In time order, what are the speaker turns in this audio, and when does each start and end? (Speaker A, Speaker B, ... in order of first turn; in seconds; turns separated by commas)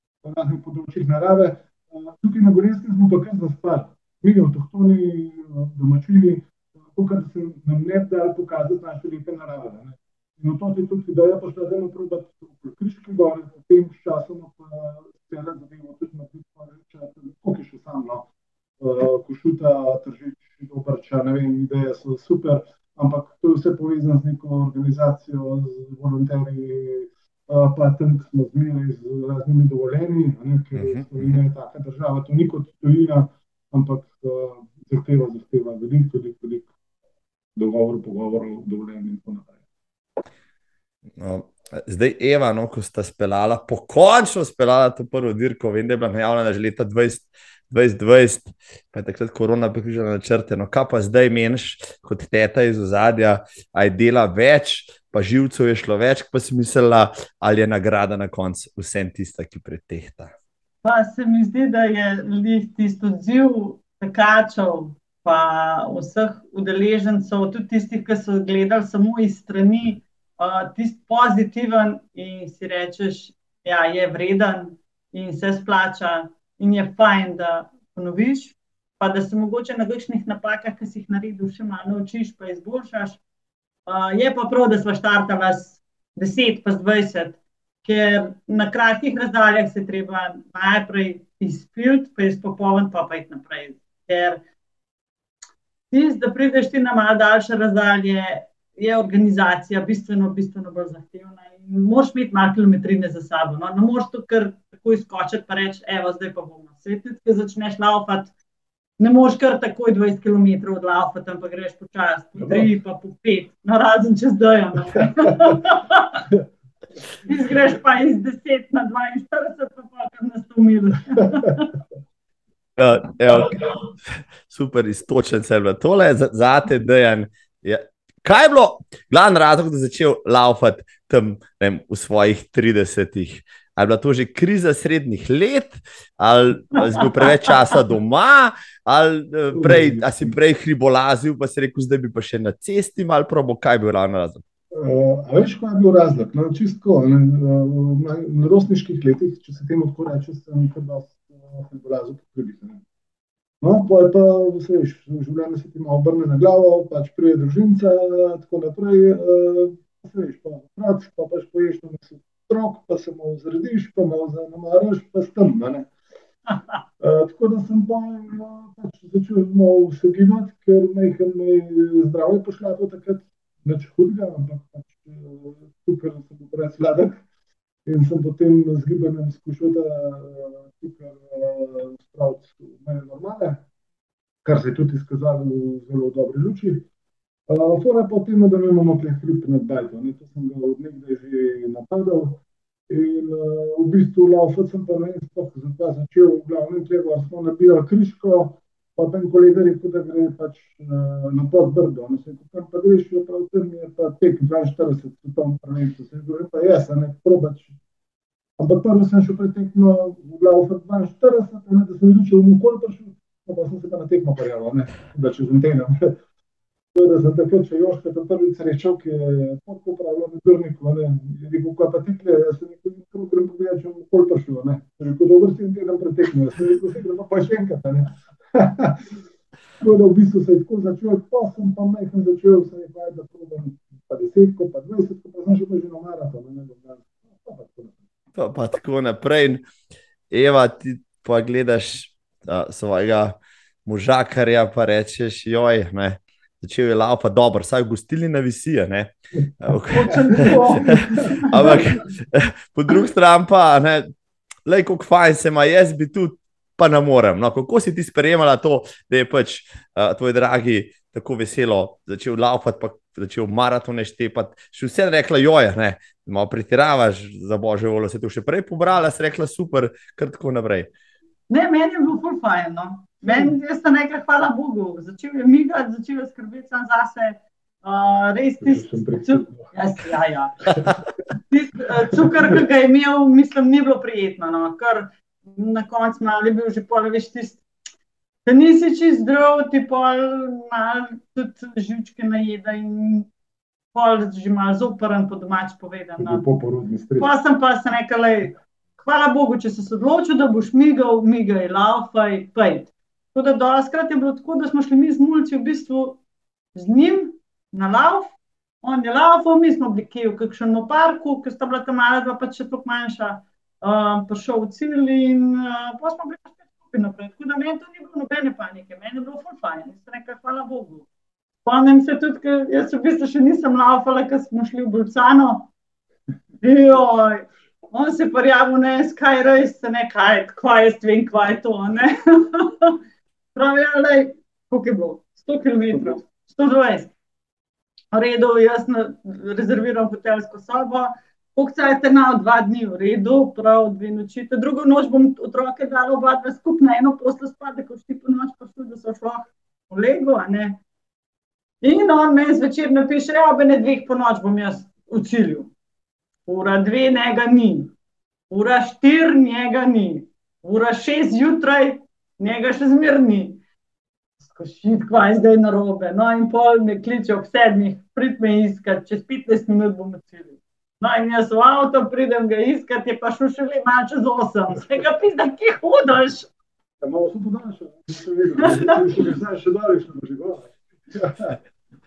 Speaker A: 0.2-18.3, Speaker A: 18.8-36.7, Speaker B: 30.8-31.4, Speaker A: 37.5-39.5, Speaker B: 41.2-60.3, Speaker C: 60.8-83.2, Speaker C: 83.9-94.4, Speaker C: 95.9-108.3, Speaker C: 109.0-116.2, Speaker A: 112.4-112.7, Speaker C: 117.2-121.7, Speaker B: 122.8-123.8, Speaker B: 124.5-144.4, Speaker A: 139.5-140.3, Speaker A: 144.7-152.8, Speaker A: 153.6-165.9, Speaker A: 167.0-177.2, Speaker A: 177.8-183.6, Speaker A: 184.4-186.9, Speaker A: 187.5-207.7, Speaker A: 208.6-216.2, Speaker A: 216.9-229.1, Speaker A: 229.8-238.0, Speaker B: 238.3-239.6, Speaker B: 240.3-254.1, Speaker A: 249.9-251.9, Speaker C: 249.9-250.7, Speaker C: 251.3-251.7, Speaker B: 254.7-270.9, Speaker C: 271.5-280.8, Speaker A: 273.2-273.5, Speaker A: 278.6-279.7, Speaker C: 281.5-287.6, Speaker A: 282.1-282.6, Speaker C: 288.4-293.3, Speaker C: 293.9-296.4, Speaker A: 296.2-297.3, Speaker C: 297.2-306.2, Speaker C: 306.7-321.1, Speaker C: 321.6-325.7, Speaker C: 326.6-333.0, Speaker C: 333.5-337.1, Speaker A: 335.9-336.2, Speaker C: 338.1-350.8, Speaker C: 351.8-355.7, Speaker C: 356.5-357.9, Speaker C: 358.5-363.6, Speaker C: 364.4-376.5, Speaker A: 377.0-381.6, Speaker C: 378.6-378.9